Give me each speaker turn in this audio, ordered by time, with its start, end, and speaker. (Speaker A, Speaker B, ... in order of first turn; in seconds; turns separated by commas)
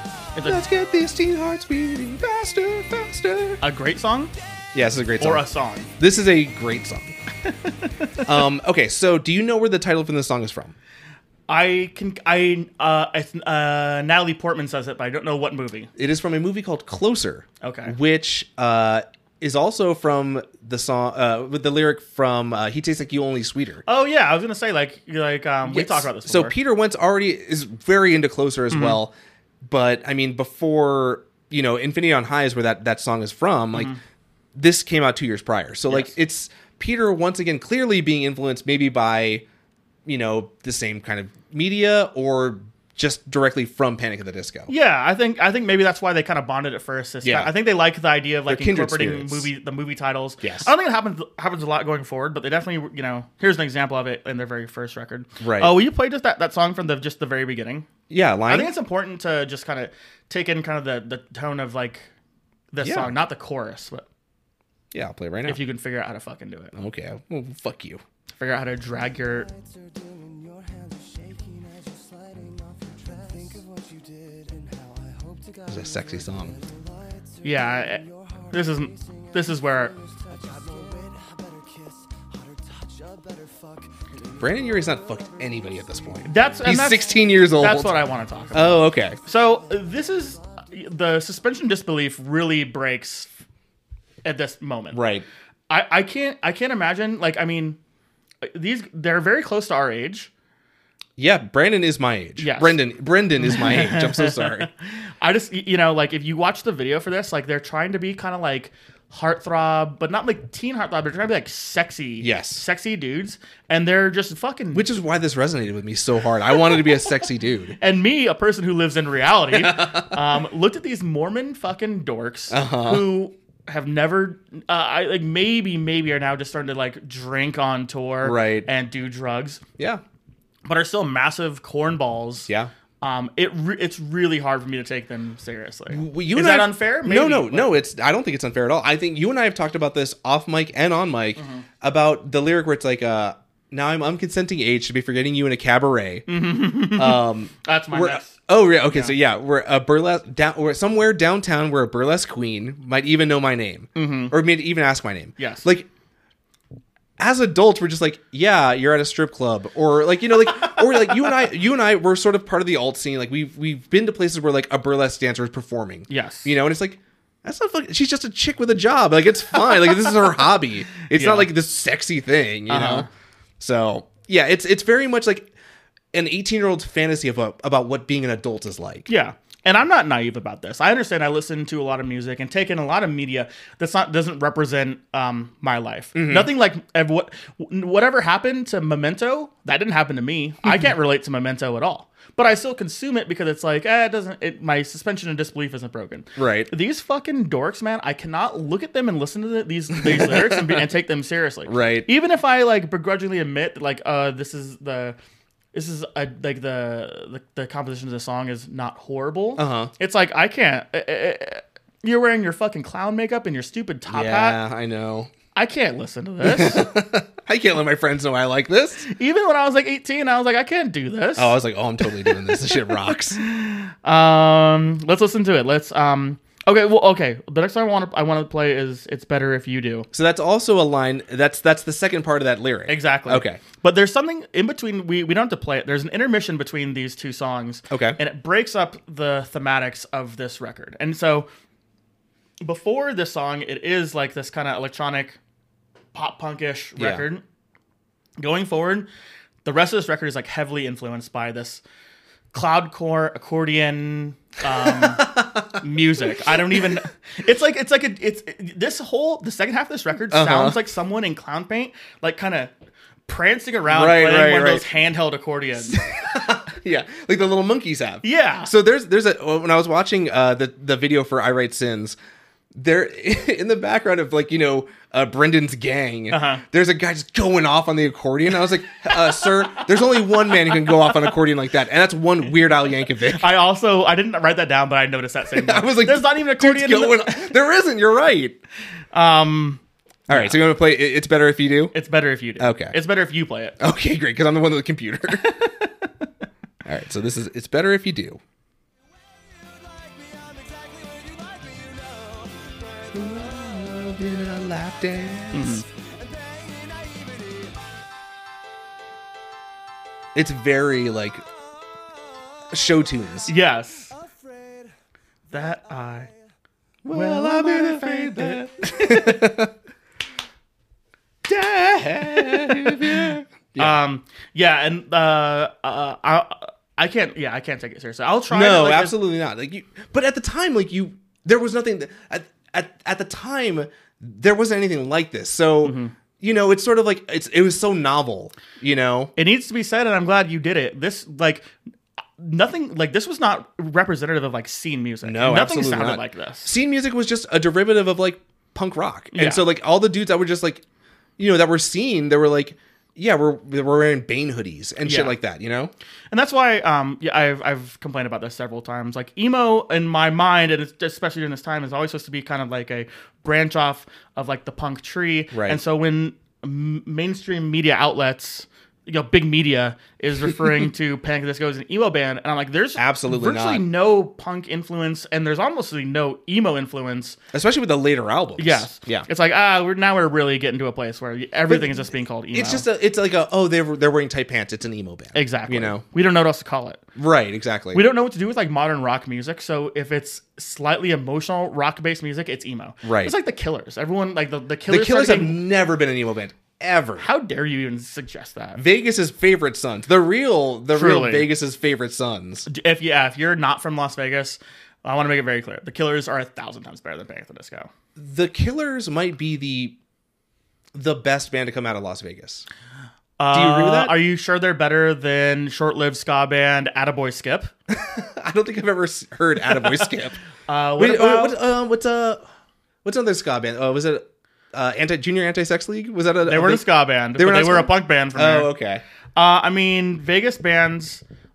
Speaker A: 0.3-0.6, Speaker B: 0.4-3.6, Speaker A: 3.6-4.3, Speaker B: 4.7-5.4, Speaker A: 5.2-5.9, Speaker B: 6.0-7.1, Speaker A: 7.5-8.2, Speaker B: 8.2-10.7, Speaker A: 11.5-15.9, Speaker B: 16.0-23.8, Speaker A: 17.6-17.9, Speaker A: 23.9-26.5, Speaker B: 25.6-33.9, Speaker A: 28.7-29.0, Speaker A: 33.7-34.0, Speaker B: 34.5-39.4, Speaker B: 40.0-44.7, Speaker A: 44.7-57.9, Speaker B: 47.2-47.5, Speaker B: 48.5-49.5, Speaker B: 50.4-50.7, Speaker B: 55.4-55.7, Speaker B: 58.1-58.7, Speaker A: 58.5-62.1, Speaker A: 62.7-64.0, Speaker B: 62.8-63.1, Speaker B: 64.9-65.6, Speaker A: 65.5-66.7, Speaker B: 66.7-68.0, Speaker A: 68.4-69.5, Speaker C: 69.1-86.5, Speaker B: 75.7-76.5, Speaker A: 77.4-79.9, Speaker B: 84.4-88.0, Speaker A: 86.2-93.3, Speaker C: 88.4-90.7, Speaker B: 88.5-89.2, Speaker A: 94.2-95.0, Speaker B: 94.9-95.2, Speaker A: 95.7-97.8, Speaker A: 98.4-100.3, Speaker B: 101.2-104.7, Speaker A: 102.4-102.8, Speaker A: 103.4-114.9, Speaker B: 112.2-112.6, Speaker B: 114.7-117.8, Speaker A: 117.8-129.6, Speaker B: 119.5-120.2, Speaker B: 122.5-123.0, Speaker B: 128.2-128.7, Speaker A: 130.6-132.5, Speaker A: 133.0-137.7, Speaker B: 135.9-146.3, Speaker A: 141.3-141.7, Speaker A: 146.3-149.1, Speaker B: 146.9-155.9, Speaker A: 153.9-154.3, Speaker A: 155.4-155.7, Speaker B: 157.2-173.1, Speaker A: 166.1-166.6, Speaker A: 171.1-171.5, Speaker A: 172.7-173.1, Speaker B: 173.6-175.5, Speaker B: 176.1-179.1, Speaker A: 179.1-205.2, Speaker B: 186.1-186.5, Speaker B: 196.3-196.7, Speaker B: 199.9-200.8, Speaker B: 201.7-202.1, Speaker A: 205.7-214.6, Speaker B: 209.6-209.9, Speaker B: 214.1-215.3, Speaker A: 215.5-216.9, Speaker B: 216.4-219.1, Speaker A: 219.0-222.3, Speaker B: 221.3-223.4, Speaker A: 223.3-230.1, Speaker B: 230.1-233.6, Speaker A: 232.9-241.5, Speaker B: 237.9-238.2, Speaker A: 242.6-245.4, Speaker A: 246.1-247.4, Speaker B: 247.0-247.2, Speaker A: 248.4-249.1, Speaker A: 249.6-251.8, Speaker A: 252.5-262.7, Speaker B: 254.8-256.9, Speaker B: 260.3-260.8, Speaker A: 263.3-266.0, Speaker B: 263.9-264.9, Speaker B: 265.8-272.2, Speaker A: 268.2-268.7, Speaker B: 272.7-283.4, Speaker A: 276.3-276.6, Speaker A: 283.3-287.5, Speaker B: 285.5-288.6, Speaker A: 289.1-290.6, Speaker B: 290.3-291.9, Speaker A: 291.9-293.8, Speaker B: 292.6-292.9, Speaker B: 293.8-295.6, Speaker A: 295.4-296.1, Speaker B: 296.8-298.4, Speaker C: 299.1-307.9, Speaker B: 303.1-305.8, Speaker A: 305.5-305.9, Speaker B: 310.3-311.4, Speaker B: 312.7-313.5, Speaker A: 313.4-314.1, Speaker C: 314.1-314.9, Speaker C: 315.5-316.3, Speaker A: 315.5-316.3, Speaker B: 317.0-319.7, Speaker A: 317.1-319.6, Speaker B: 321.4-324.0, Speaker A: 322.5-323.1, Speaker A: 323.8-329.2, Speaker B: 328.5-339.3, Speaker A: 335.8-336.1, Speaker A: 339.4-341.7, Speaker A: 342.4-346.7, Speaker B: 345.2-350.8, Speaker A: 349.3-349.6, Speaker B: 351.4-355.9, Speaker A: 355.0-355.3, Speaker A: 356.3-377.4, Speaker B: 365.5-365.8, Speaker B: 372.9-373.8, Speaker B: 377.5-379.3, Speaker A: 378.6-382.9, Speaker B: 381.7-386.0, Speaker A: 385.3-387.0, Speaker B: 387.1-388.0, Speaker A: 387.9-395.6, Speaker B: 393.0-393.3, Speaker B: 394.9-397.2, Speaker A: 397.2-398.8, Speaker B: 398.8-402.7, Speaker A: 400.9-401.5, Speaker A: 402.6-407.9, Speaker B: 408.1-409.9, Speaker B: 410.9-412.6, Speaker A: 413.4-417.7, Speaker B: 413.5-414.2, Speaker B: 417.9-420.4, Speaker A: 420.7-421.6, Speaker B: 421.0-422.4, Speaker B: 423.0-429.0, Speaker A: 426.4-428.7, Speaker A: 429.4-431.2